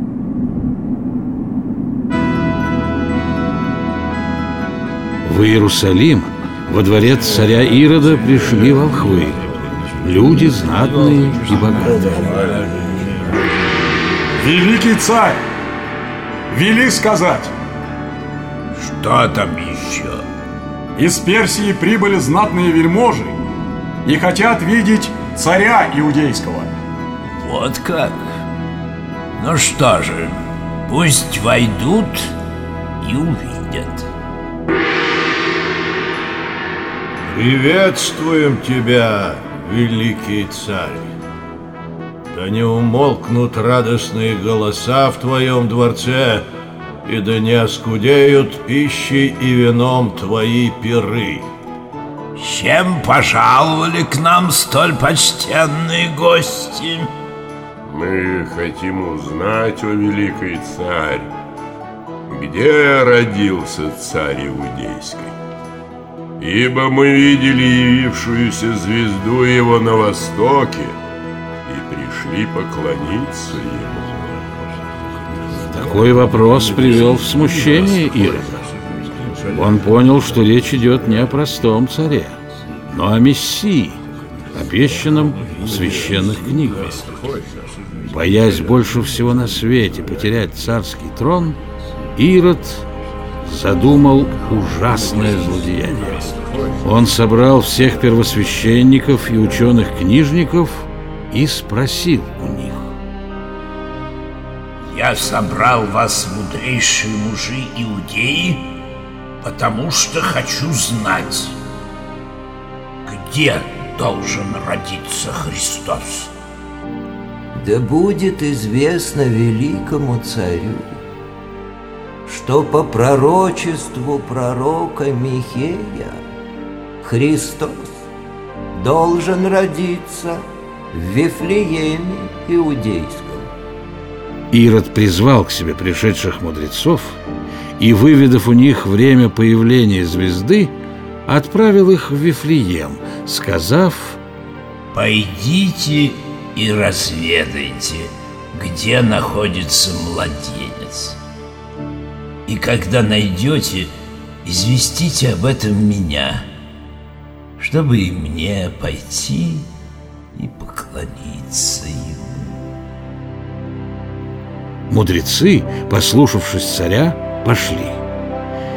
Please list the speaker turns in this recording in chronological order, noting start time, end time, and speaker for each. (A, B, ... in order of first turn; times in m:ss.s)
0:05.2-0:09.4 A
0:08.5-0:09.7 B
0:10.0-0:12.0 A
0:12.0-0:12.3 C
0:12.0-0:13.2 D
0:12.2-0:12.6 B
0:14.4-0:15.4 E
0:16.5-0:17.5 E
0:18.8-0:20.2 C
0:21.0-0:23.4 E
0:24.1-0:26.7 E
0:27.4-0:28.2 C
0:29.4-0:32.3 C
0:33.0-0:34.1 C
0:37.2-0:41.1 D
0:42.3-0:46.5 D
0:47.0-0:51.4 D
0:52.4-0:57.1 C
0:57.9-1:01.3 B
1:02.3-1:05.3 B
1:06.4-1:11.0 B
1:11.7-1:14.5 B
1:15.7-1:18.4 A
1:16.7-1:20.1 B
1:19.5-1:22.4 A
1:22.9-1:24.0 A
1:24.5-1:27.0 A
1:25.5-1:29.0 B
1:28.1-1:31.6 A
1:32.2-1:32.8 A
1:33.4-1:36.2 A
1:34.9-1:36.8 B
1:36.8-1:43.0 A
1:44.8-1:48.7 C
1:49.4-1:51.6 C
1:53.1-1:56.3 C
1:57.6-2:01.0 F
2:02.3-2:06.2 F
2:07.0-2:08.0 F
2:08.8-2:13.5 F
2:14.5-2:17.2 A
2:17.8-2:20.8 A
2:21.3-2:24.2 A
2:24.9-2:31.2 C
2:32.5-2:33.9 C
2:34.4-2:36.4 C
2:37.6-2:39.7 C
2:40.4-2:42.6 C
2:44.9-2:48.0 A